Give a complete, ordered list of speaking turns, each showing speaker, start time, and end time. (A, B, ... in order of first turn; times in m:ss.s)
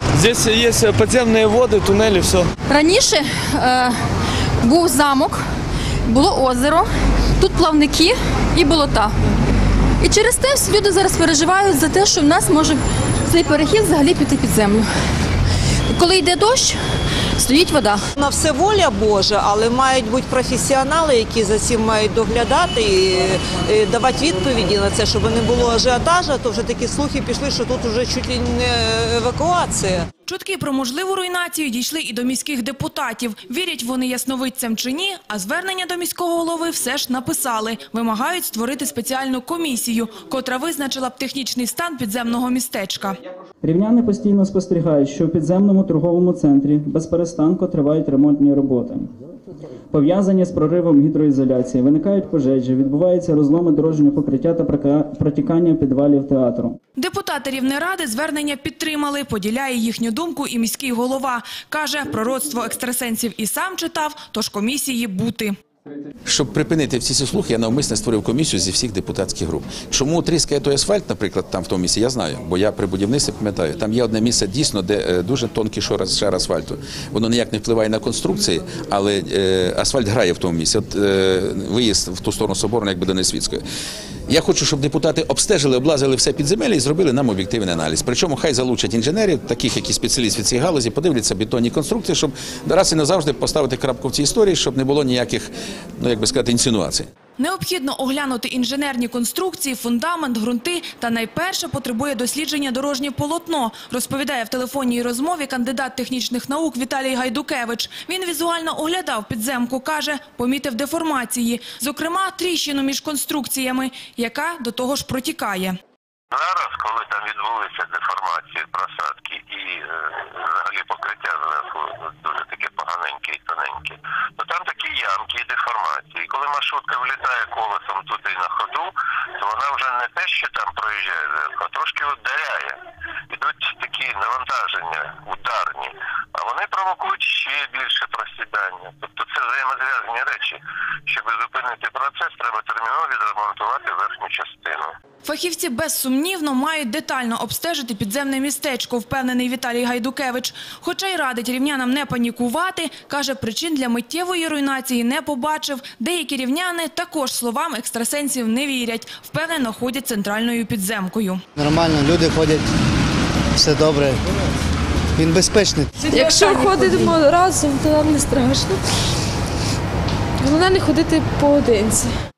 0:00.2-0:02.5 A
0:02.7-0:03.9 B
0:04.6-0:05.4 B
0:06.1-0:06.9 B
0:07.4-0:09.1 B
0:10.0-0:14.9 B
0:15.9-0:16.8 B
0:17.4-0:18.0 B
0:18.2-0:30.0 C
0:30.3-0:43.2 D
0:43.6-0:49.1 E
0:49.9-0:56.8 E
0:57.0-1:05.6 D
1:06.2-1:23.6 F
1:24.3-1:37.1 F
1:37.4-1:55.8 D
1:56.3-2:12.8 G
2:13.3-2:24.9 G
2:25.2-2:41.4 D
2:41.6-2:42.7 H
2:43.5-2:44.2 H
2:45.2-2:45.9 H
2:46.1-2:48.7 I
2:50.4-2:52.1 I